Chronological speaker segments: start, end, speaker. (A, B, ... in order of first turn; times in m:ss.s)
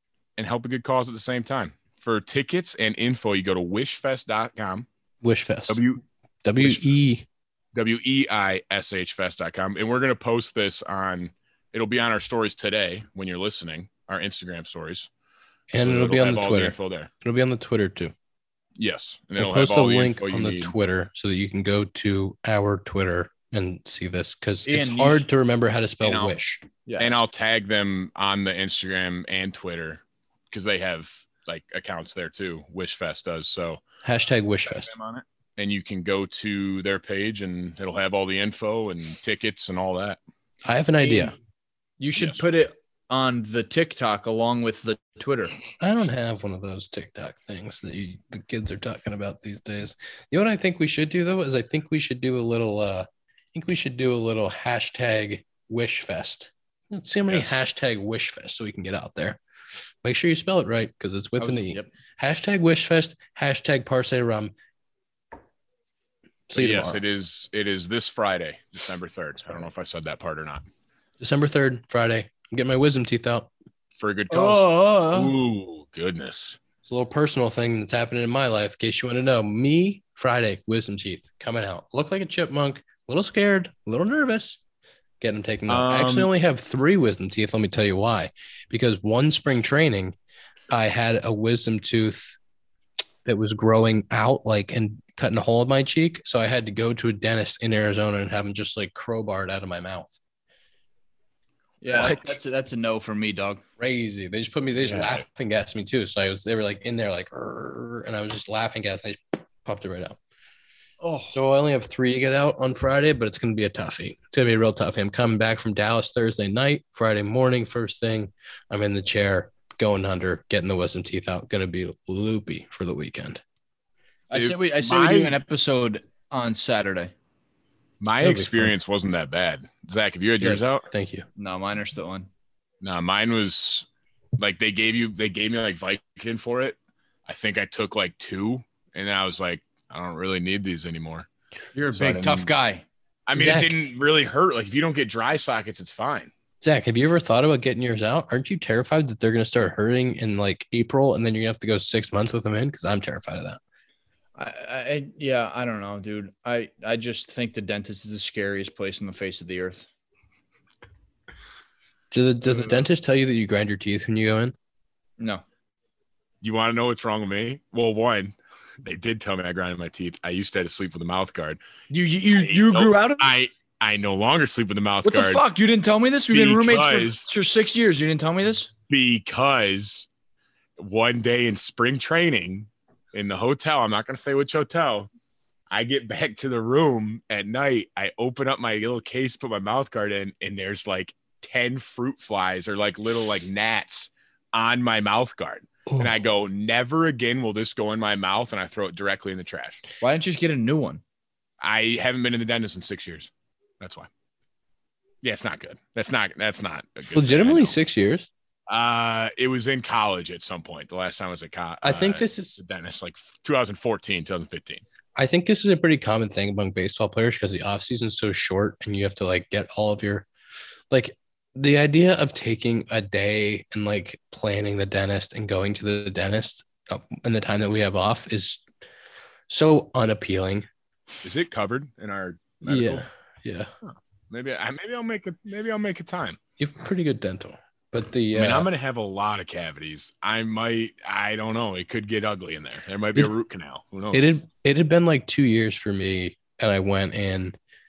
0:00.4-0:04.9 A
0:05.2-0:05.8 B
0:05.7-0:06.0 A
0:06.4-0:07.3 B
0:07.8-0:15.1 A
0:15.7-0:18.1 B
0:15.7-0:17.1 A
0:18.8-0:20.7 A
0:19.4-0:26.6 B
0:24.7-0:25.2 C
0:26.0-0:26.3 C
0:26.9-0:27.2 C
0:27.0-0:33.8 A
0:34.0-0:34.9 B
0:34.9-0:35.2 C
0:35.6-0:40.2 A
0:40.6-0:41.4 B
0:41.0-0:41.3 C
0:42.0-0:45.5 C
0:45.8-0:59.4 B
0:57.3-0:57.6 A
1:00.0-1:04.5 B
1:01.4-1:01.9 C
1:06.5-1:07.0 B
1:06.6-1:10.6 A
1:11.2-1:13.5 B
1:14.0-1:16.6 A
1:14.3-1:15.3 C
1:16.8-1:24.6 B
1:25.2-1:30.2 B
1:25.7-1:26.3 A
1:30.7-1:32.4 B
1:33.2-1:40.2 B
1:41.8-1:43.6 C
1:43.8-1:50.2 B
1:44.8-1:45.2 A
1:51.0-1:51.4 C
1:51.3-2:03.4 B
2:04.3-2:07.1 C
2:04.3-2:05.4 A
2:08.0-2:10.9 A
2:08.2-2:08.7 B
2:10.4-2:11.3 B
2:11.4-2:12.3 C
2:12.8-2:13.9 A
2:14.4-2:21.3 A
2:21.8-2:22.8 C
2:22.0-2:22.5 A
2:23.3-2:26.3 A
2:23.3-2:23.8 B
2:26.6-2:33.6 B
2:34.4-2:39.9 C
2:42.1-2:44.6 B
2:46.4-2:51.6 A
2:51.9-2:53.4 C
2:52.4-2:55.4 A
2:55.0-2:58.7 C
2:56.3-2:57.3 A
2:58.9-3:00.1 A
3:00.8-3:05.1 A
3:05.7-3:19.8 A
3:20.0-3:21.0 C
3:21.6-3:24.1 A
3:25.2-3:27.8 A
3:27.1-3:28.3 B
3:28.7-3:34.8 A
3:31.8-3:32.6 B
3:35.2-3:40.3 B
3:40.9-3:48.6 B
3:49.5-3:50.7 B
3:51.2-3:53.0 A
3:52.6-3:53.7 B
3:53.8-3:56.4 A
3:56.6-3:58.7 B
3:58.3-4:04.3 A
4:04.1-4:07.6 B